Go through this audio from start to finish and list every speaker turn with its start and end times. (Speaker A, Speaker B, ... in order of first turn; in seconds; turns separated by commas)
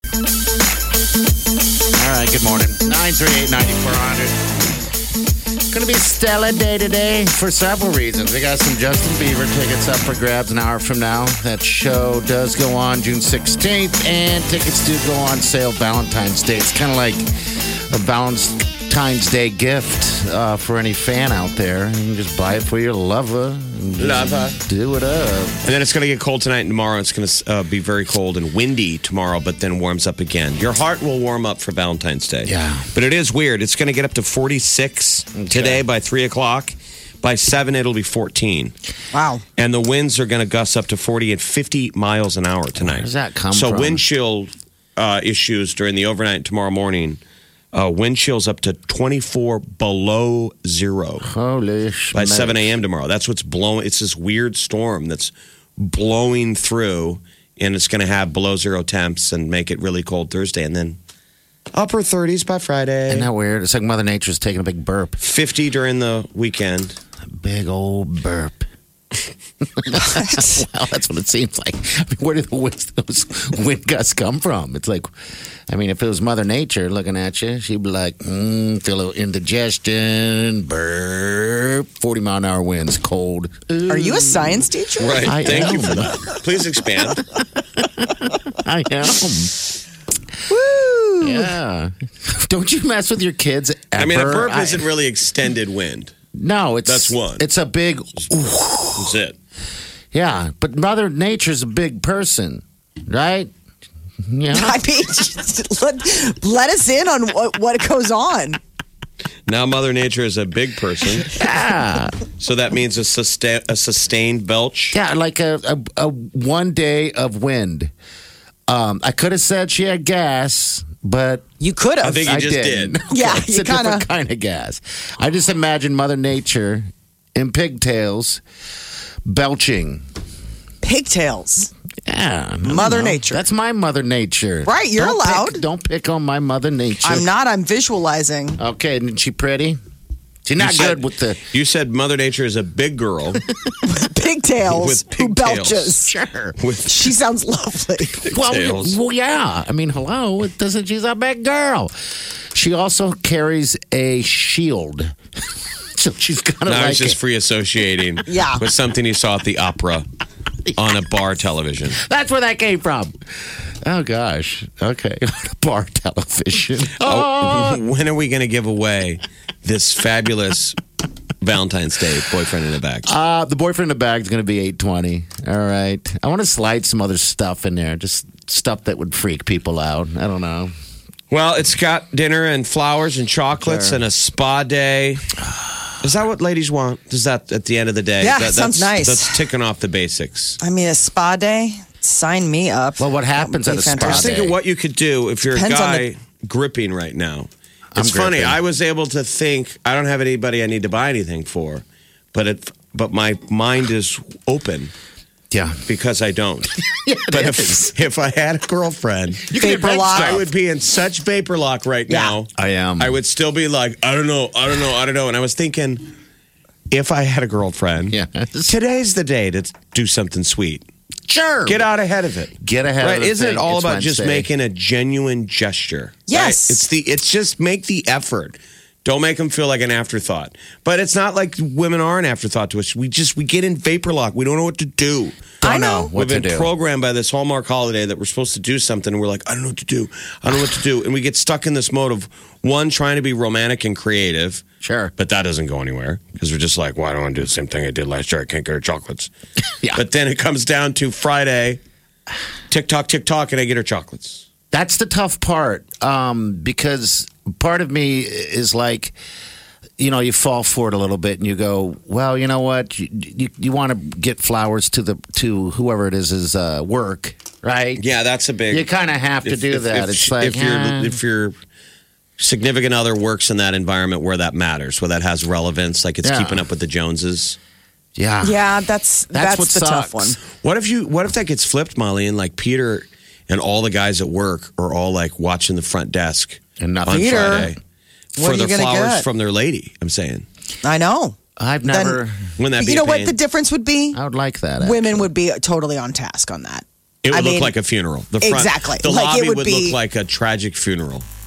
Speaker A: 1.9-4.4, Speaker A: 5.7-17.3, Speaker A: 17.9-25.6, Speaker B: 24.0-24.6, Speaker B: 25.6-38.7, Speaker A: 32.5-32.9, Speaker A: 35.4-35.8, Speaker C: 39.1-39.4, Speaker B: 39.6-47.2, Speaker A: 42.8-44.0, Speaker B: 47.7-51.3, Speaker A: 51.2-52.7, Speaker B: 52.1-61.0, Speaker B: 61.7-63.3, Speaker A: 63.1-65.2, Speaker B: 65.2-67.0, Speaker A: 67.3-68.7, Speaker A: 69.6-75.1, Speaker C: 70.0-70.6, Speaker A: 75.7-84.7, Speaker C: 83.9-85.7, Speaker B: 85.0-87.2, Speaker A: 85.2-86.2, Speaker A: 87.8-89.6, Speaker C: 90.5-91.5, Speaker A: 91.2-94.9, Speaker B: 94.0-96.1, Speaker A: 96.3-99.1, Speaker B: 96.9-97.5, Speaker B: 99.0-99.4, Speaker A: 100.1-103.5, Speaker A: 104.2-104.8, Speaker C: 104.5-108.6, Speaker B: 109.5-111.3, Speaker A: 111.3-112.2, Speaker B: 112.4-114.9, Speaker A: 114.9-117.9, Speaker A: 118.7-121.5, Speaker C: 121.6-122.3, Speaker B: 122.0-123.0, Speaker A: 122.1-128.4, Speaker C: 123.1-124.1, Speaker A: 129.2-130.0, Speaker C: 130.8-131.7, Speaker A: 132.1-137.3, Speaker C: 132.6-133.4, Speaker C: 134.6-135.6, Speaker C: 137.0-138.6, Speaker A: 138.6-139.8, Speaker A: 140.4-141.4, Speaker B: 140.6-141.0, Speaker B: 141.5-143.4, Speaker C: 143.8-146.1, Speaker B: 144.7-145.9, Speaker A: 146.1-146.6, Speaker B: 146.6-147.1, Speaker C: 146.9-148.2, Speaker B: 148.2-149.0, Speaker A: 148.3-151.9, Speaker A: 152.5-155.1, Speaker A: 156.0-157.2, Speaker B: 156.7-160.1, Speaker C: 158.3-158.6, Speaker B: 160.8-162.0, Speaker A: 161.9-163.2, Speaker A: 163.8-167.8, Speaker B: 167.0-170.8, Speaker B: 171.4-173.1, Speaker A: 173.1-180.7, Speaker B: 181.3-185.2, Speaker A: 183.6-184.0, Speaker B: 186.0-190.6, Speaker C: 188.2-189.4, Speaker C: 190.6-194.3, Speaker A: 193.0-194.6, Speaker B: 194.0-204.9, Speaker C: 195.5-196.1, Speaker A: 197.9-198.6, Speaker A: 205.5-205.8, Speaker B: 205.9-206.7, Speaker A: 207.0-207.9, Speaker B: 207.3-216.1, Speaker A: 209.5-210.5, Speaker C: 209.6-210.4, Speaker C: 212.1-212.3, Speaker A: 212.6-213.1, Speaker B: 216.9-220.9, Speaker A: 218.1-218.7, Speaker A: 221.3-221.8, Speaker B: 221.7-235.5, Speaker A: 222.6-224.5, Speaker C: 226.3-226.8, Speaker A: 235.6-236.7, Speaker C: 235.6-236.1, Speaker B: 236.1-244.6, Speaker A: 244.8-245.1, Speaker B: 245.2-249.3, Speaker B: 249.9-251.8, Speaker B: 252.7-254.4, Speaker A: 254.7-259.1, Speaker A: 260.0-268.0, Speaker B: 268.0-268.9, Speaker A: 268.7-271.2, Speaker B: 269.4-271.6, Speaker B: 272.4-277.6, Speaker A: 276.2-276.6, Speaker A: 278.1-278.6, Speaker C: 278.4-280.4, Speaker A: 279.3-280.4, Speaker B: 280.6-287.8, Speaker A: 286.8-287.7, Speaker C: 287.1-287.7, Speaker C: 288.4-289.3, Speaker B: 288.4-290.4, Speaker C: 290.8-291.4, Speaker A: 291.6-292.5, Speaker C: 291.9-292.2, Speaker B: 292.6-293.4, Speaker C: 292.8-294.2, Speaker A: 294.1-295.2, Speaker C: 294.8-297.7, Speaker B: 297.2-301.2, Speaker C: 298.4-300.0